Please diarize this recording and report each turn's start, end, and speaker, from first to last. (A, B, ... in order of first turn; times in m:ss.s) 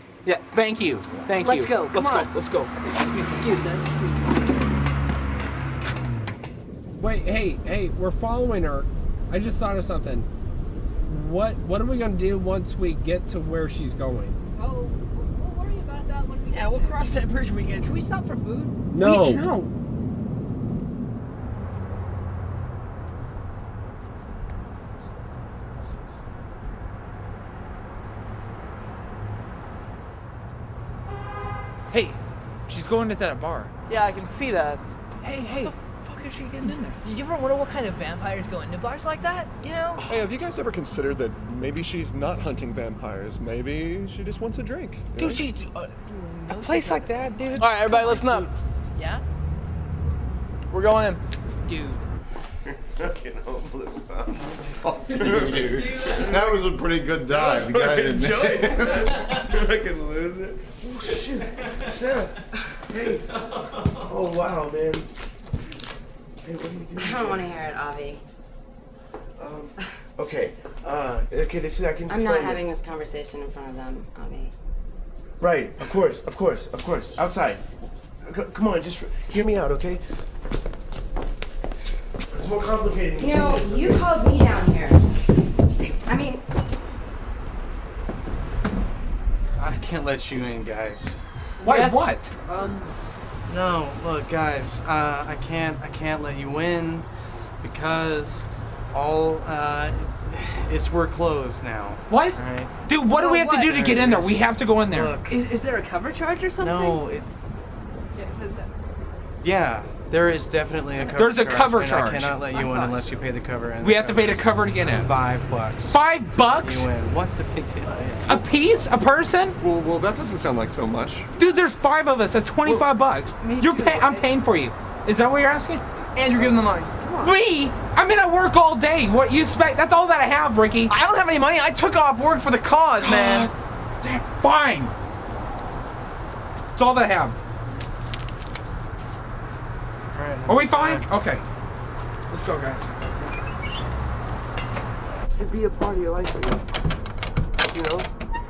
0:00.2-0:02.7 A
0:01.3-0:02.3 B
0:02.9-0:04.5 B
0:07.0-0:10.3 C
0:11.1-0:14.4 C
0:14.6-0:17.0 B
0:16.5-0:18.0 D
0:17.8-0:18.8 B
0:18.9-0:19.4 C
0:18.9-0:19.7 D
0:31.9-0:33.7 A
0:33.9-0:34.8 D
0:35.2-0:35.7 B
0:35.6-0:37.0 A
0:37.0-0:40.0 B
0:40.0-0:45.4 E
0:45.2-0:45.9 A
0:46.1-0:49.2 B
0:46.6-0:47.7 A
0:47.6-0:48.5 D
0:50.7-0:51.2 D
0:51.7-0:52.0 A
0:52.9-0:56.5 F
0:55.1-0:58.8 G
0:55.8-0:56.2 B
0:57.2-1:03.2 F
1:04.0-1:05.1 F
1:06.4-1:07.5 F
1:07.0-1:08.2 H
1:09.4-1:12.7 F
1:12.1-1:14.5 H
1:15.4-1:17.7 F
1:18.2-1:20.0 F
1:22.3-1:24.1 F
1:23.2-1:25.1 H
1:26.0-1:26.4 H
1:29.6-1:31.2 I
1:31.6-1:32.3 A
1:32.5-1:32.8 I
1:33.5-1:37.1 I
1:37.6-1:42.7 I
1:42.1-1:45.2 A
1:43.2-1:43.7 B
1:43.5-1:45.4 I
1:45.3-1:47.0 B
1:46.6-1:47.3 I
1:48.2-1:48.7 B
1:49.4-1:56.0 I
1:51.2-1:52.4 A
1:53.8-1:55.1 A
1:55.9-1:56.9 A
1:56.6-1:58.4 I
1:58.3-1:59.6 A
1:59.6-2:01.3 E
2:01.4-2:05.8 A
2:03.4-2:04.2 B
2:06.1-2:06.9 D
2:07.2-2:10.9 A
2:10.9-2:13.5 D
2:13.0-2:13.5 A
2:14.0-2:14.9 A
2:16.7-2:17.4 A
2:20.1-2:21.1 I
2:20.5-2:21.4 A
2:22.3-2:22.9 A
2:27.6-2:28.1 F